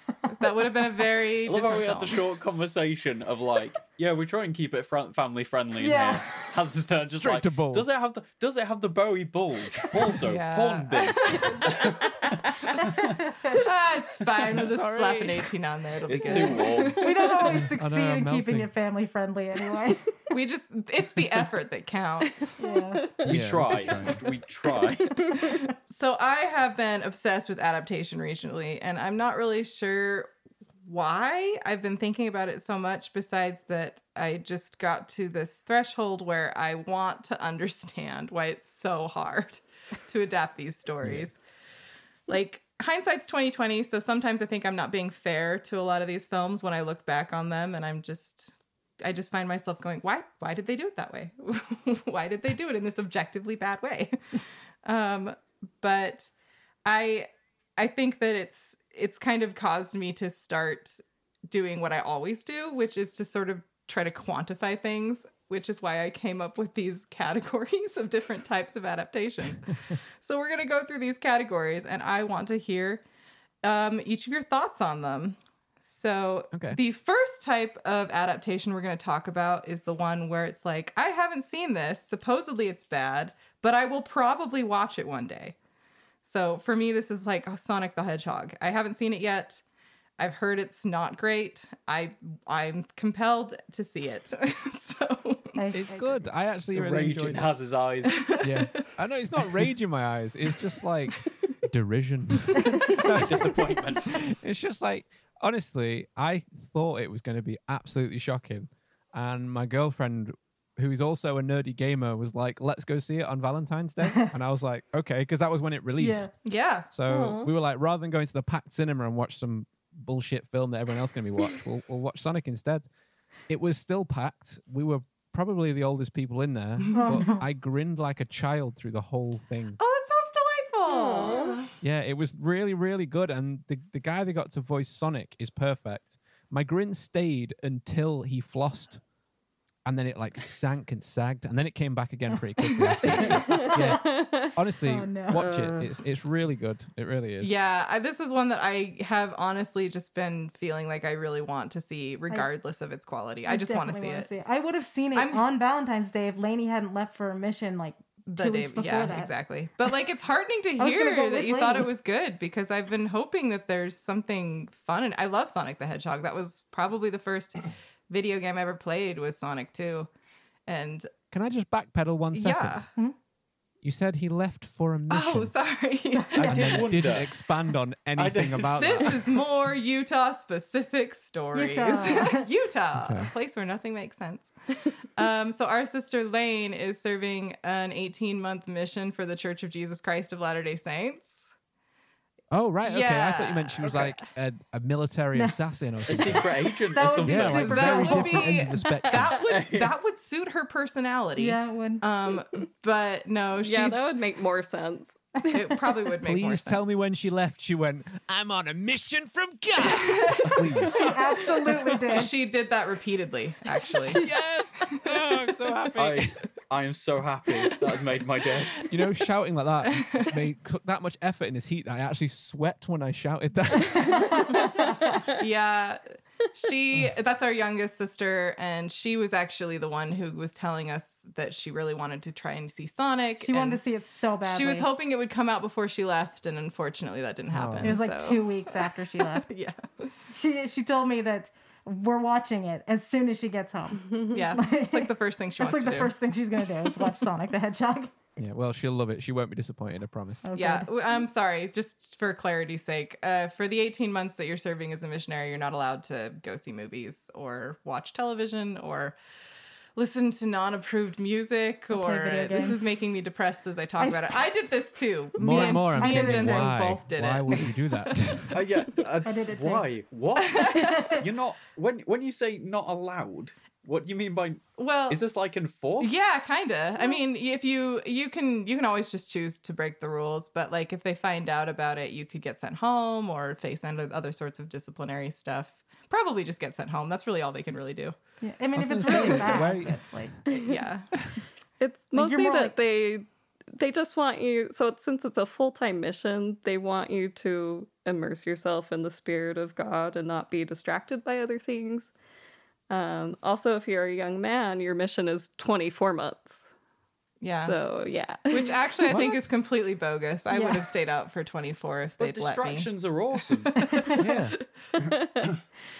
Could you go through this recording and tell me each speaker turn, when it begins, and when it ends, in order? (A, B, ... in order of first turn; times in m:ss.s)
0:00.2-0:00.8 A
0:00.4-0:02.2 B
0:01.4-0:13.2 C
0:05.8-0:06.2 A
0:07.2-0:07.9 D
0:10.2-0:11.9 B
0:12.8-0:13.6 A
0:13.5-0:17.3 B
0:14.4-0:15.5 D
0:16.0-0:17.1 C
0:17.0-0:20.1 A
0:17.5-0:18.7 D
0:20.3-0:22.5 B
0:22.4-0:24.0 E
0:22.6-0:23.0 A
0:23.2-0:24.2 D
0:23.2-0:25.2 C
0:25.9-0:30.3 B
0:30.8-0:41.4 B
0:41.0-0:41.3 D
0:42.3-0:56.3 B
0:56.8-1:13.0 B
1:13.6-1:25.5 B
1:16.5-1:16.8 D
1:26.2-1:29.6 B
1:30.2-1:35.6 B
1:35.6-1:36.3 A
1:35.7-1:37.5 D
1:36.7-1:38.3 C
1:38.0-1:38.9 B
1:38.4-1:56.4 D
1:42.7-1:43.0 B
1:43.0-1:44.2 C
1:56.0-1:56.3 A
1:56.4-1:56.9 B
1:56.9-2:02.9 D
1:57.1-1:57.5 E
2:03.5-2:09.8 D
2:06.9-2:07.4 A
2:09.8-2:11.7 B
2:10.9-2:11.6 E
2:11.8-2:19.0 D
2:19.8-2:27.6 D
2:22.8-2:23.6 B
2:23.2-2:24.2 A
2:23.3-2:24.5 E
2:24.8-2:25.5 A
2:25.3-2:25.9 E
2:27.4-2:34.3 B
2:33.4-2:39.3 A
2:35.1-2:35.4 B
2:38.3-2:50.1 B
2:40.8-2:41.9 A
2:50.7-2:51.1 B
2:51.3-2:52.8 D
2:52.3-2:52.9 B
2:53.8-2:55.5 D
2:55.1-2:56.4 B
2:56.1-2:56.8 A
2:56.3-2:57.4 C
2:56.4-2:59.4 D
2:58.2-2:59.0 C
2:58.8-3:11.4 B
3:01.5-3:02.5 A
3:02.9-3:03.3 D
3:12.5-3:16.5 D
3:12.8-3:14.2 B
3:15.3-3:15.6 A
3:16.1-3:18.1 C
3:16.9-3:18.6 A
3:17.2-3:19.4 D
3:17.6-3:24.2 B
3:19.5-3:19.9 C
3:21.4-3:22.0 A
3:23.6-3:25.4 E
3:25.5-3:26.9 B
3:26.2-3:31.1 D
3:29.8-3:30.6 B
3:30.5-3:31.1 C
3:30.9-3:32.3 A
3:32.1-3:34.3 B
3:33.8-3:34.4 A
3:34.0-3:36.5 D
3:36.0-3:38.9 C
3:38.8-3:44.6 D
3:39.8-3:40.4 B
3:44.0-3:44.9 A
3:44.5-3:53.8 B
3:53.4-3:54.9 A
3:54.4-4:00.1 B
3:57.5-3:58.0 D
3:57.8-3:59.5 A
4:00.3-4:08.1 A
4:04.3-4:06.2 B
4:06.9-4:07.1 B
4:08.4-4:10.5 D
4:10.4-4:10.9 A
4:10.5-4:19.2 B
4:20.0-4:28.2 B
4:21.9-4:22.8 A
4:24.0-4:24.4 A
4:25.4-4:28.6 D
4:25.4-4:26.7 A
4:28.5-4:36.2 C
4:29.2-4:29.9 A
4:30.4-4:31.1 B
4:30.7-4:31.2 A
4:34.8-4:35.2 B
4:36.0-4:48.2 B
4:48.4-4:50.3 A
4:48.7-4:50.5 D
4:49.1-4:49.6 B
4:50.5-4:50.8 E
4:50.5-4:51.1 B
4:51.1-4:51.4 D
4:51.8-5:02.1 E
4:52.1-4:52.8 A
5:02.9-5:06.6 E
5:07.4-5:07.8 B
5:07.6-5:08.9 E
5:08.5-5:12.9 B
5:09.1-5:09.4 D
5:10.5-5:10.8 A
5:12.2-5:13.7 C
5:13.5-5:14.4 B
5:14.2-5:14.6 D
5:15.2-5:15.5 E